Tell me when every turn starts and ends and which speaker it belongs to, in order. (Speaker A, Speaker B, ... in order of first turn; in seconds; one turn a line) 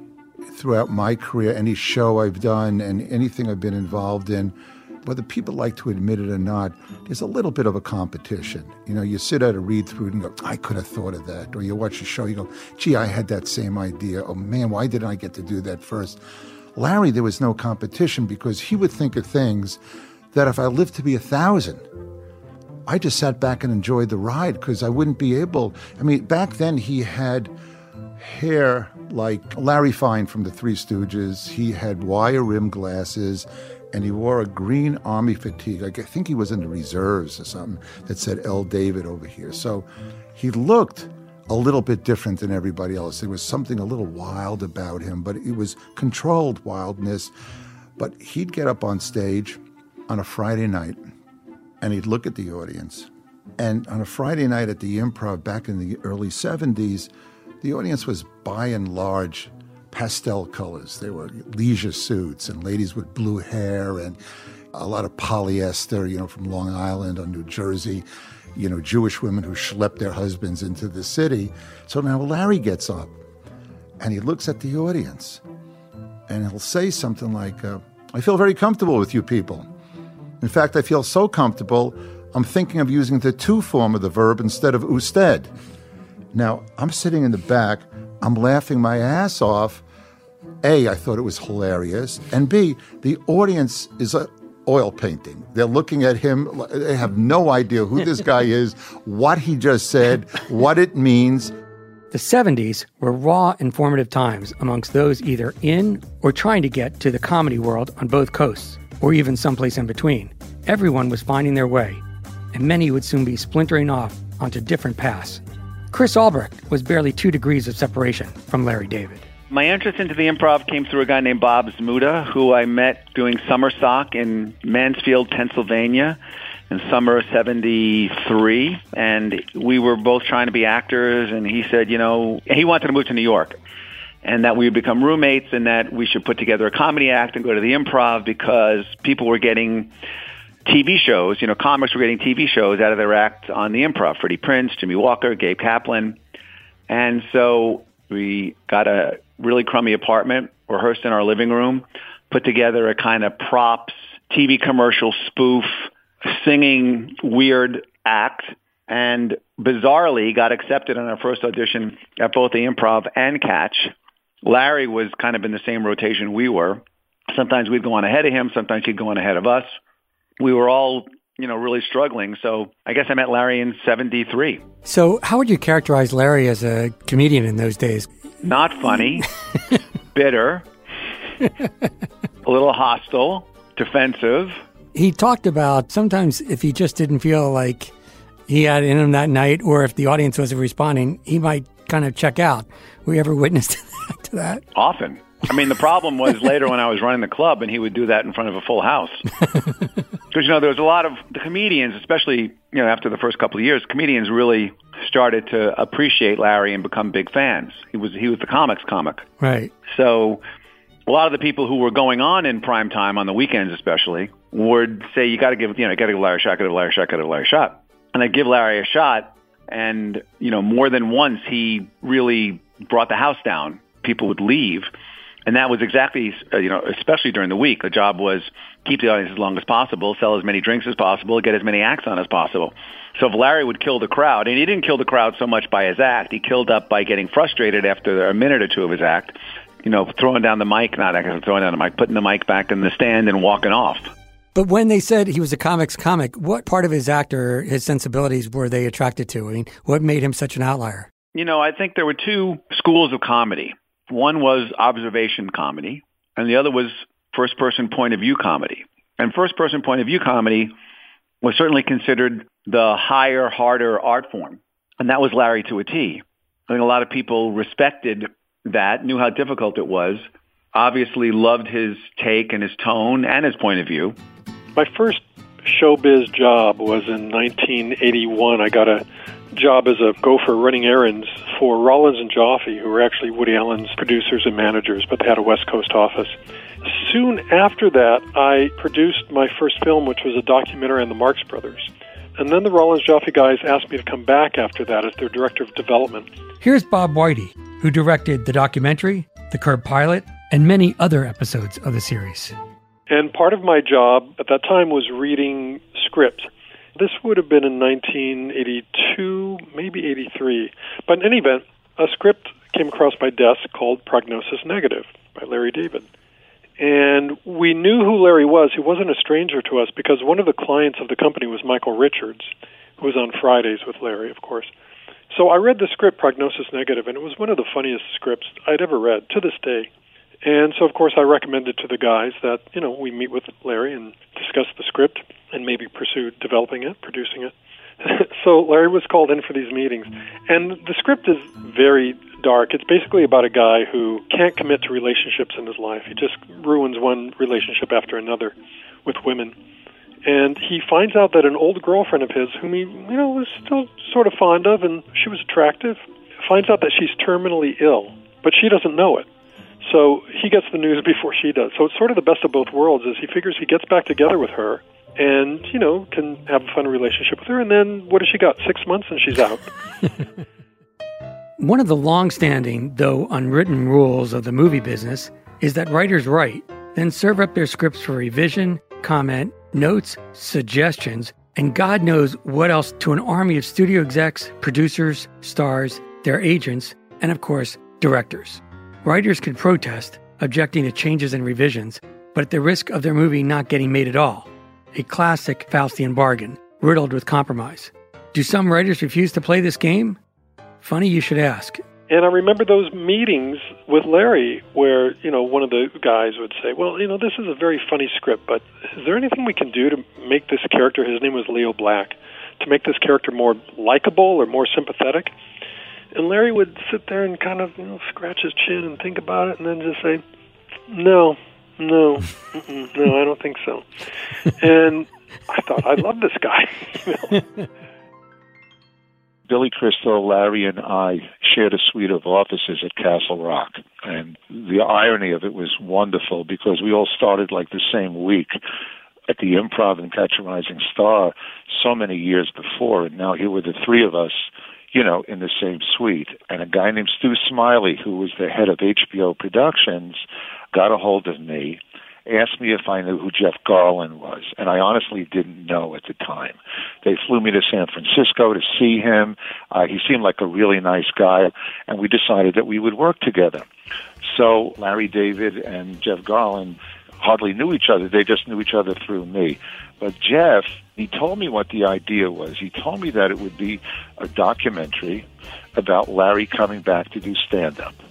Speaker A: 0.5-16.2
Speaker A: 16.8-19.8
Speaker A: 20.3-21.9
Speaker A: 22.9-27.5
Speaker A: 28.2-47.3
Speaker A: 48.0-51.0
Speaker A: 51.8-57.1
Speaker A: 57.6-64.2
Speaker A: 64.7-73.2
Speaker A: 74.0-75.4
Speaker A: 76.3-79.7
Speaker A: 80.4-85.5
Speaker A: 86.3-89.8
Speaker A: 90.6-101.5
Speaker B: 102.1-112.0
Speaker B: 112.5-115.4
Speaker B: 115.9-119.3
Speaker C: 119.5-133.6
Speaker C: 134.2-139.9
Speaker C: 140.7-146.2
Speaker C: 146.9-169.8
Speaker C: 170.4-174.6
Speaker B: 174.9-178.1
Speaker C: 178.4-179.3
Speaker C: 180.1-180.7
Speaker C: 182.4-184.6
Speaker B: 184.9-187.9
Speaker B: 188.5-194.6
Speaker C: 194.8-199.2
Speaker C: 200.3-209.2
Speaker B: 209.4-209.7
Speaker C: 209.9-210.4
Speaker C: 211.1-224.9
Speaker C: 225.5-244.1
Speaker B: 244.6-251.1
Speaker C: 251.3-260.7
Speaker C: 261.4-274.2
Speaker D: 274.8-296.3
Speaker B: 296.6-302.6
Speaker D: 303.1-316.1
Speaker D: 316.8-324.7
Speaker D: 325.3-329.9
Speaker D: 330.4-349.6
Speaker D: 350.2-359.3
Speaker D: 359.8-369.7
Speaker B: 371.6-400.2
Speaker B: 400.8-401.8
Speaker D: 402.1-415.3
Speaker D: 416.1-420.2
Speaker D: 420.9-423.9
Speaker D: 424.4-427.4
Speaker E: 429.5-438.6
Speaker E: 439.3-450.2
Speaker E: 450.7-463.6
Speaker E: 464.2-478.0